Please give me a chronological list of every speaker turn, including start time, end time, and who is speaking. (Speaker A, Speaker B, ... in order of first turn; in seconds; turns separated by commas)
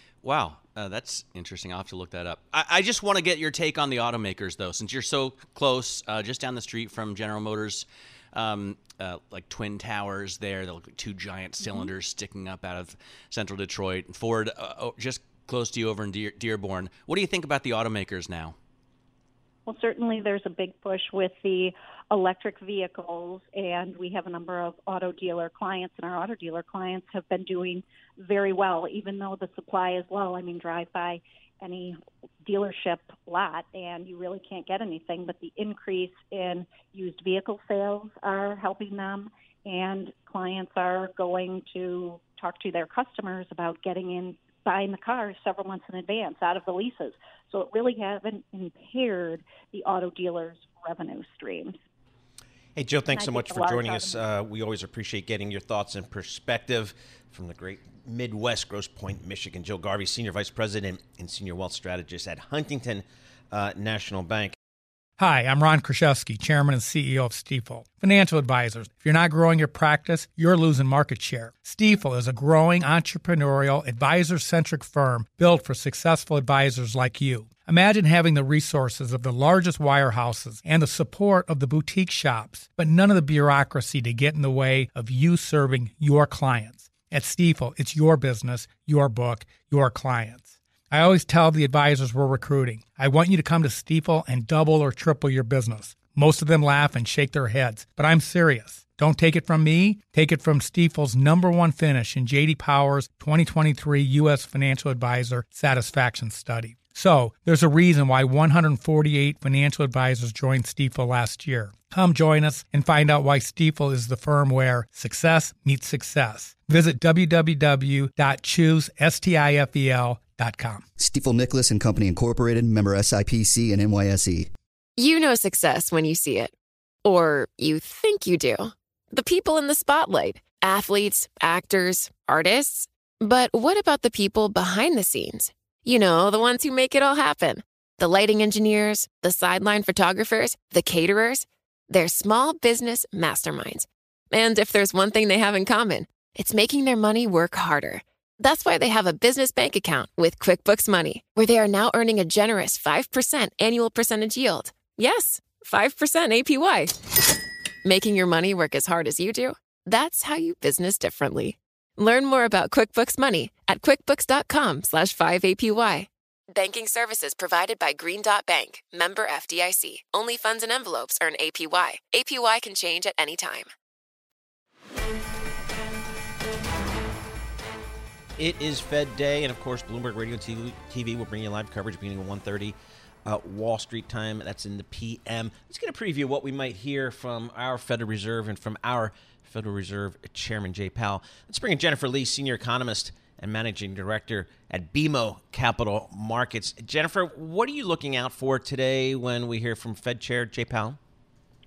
Speaker A: 0.2-18.6, Speaker B: 19.6-51.8, Speaker C: 52.7-64.5, Speaker B: 53.1-54.2, Speaker D: 65.2-120.8, Speaker E: 121.0-124.5, Speaker F: 125.0-126.5, Speaker F: 127.0-157.0, Speaker F: 157.8-173.7, Speaker C: 178.4-201.0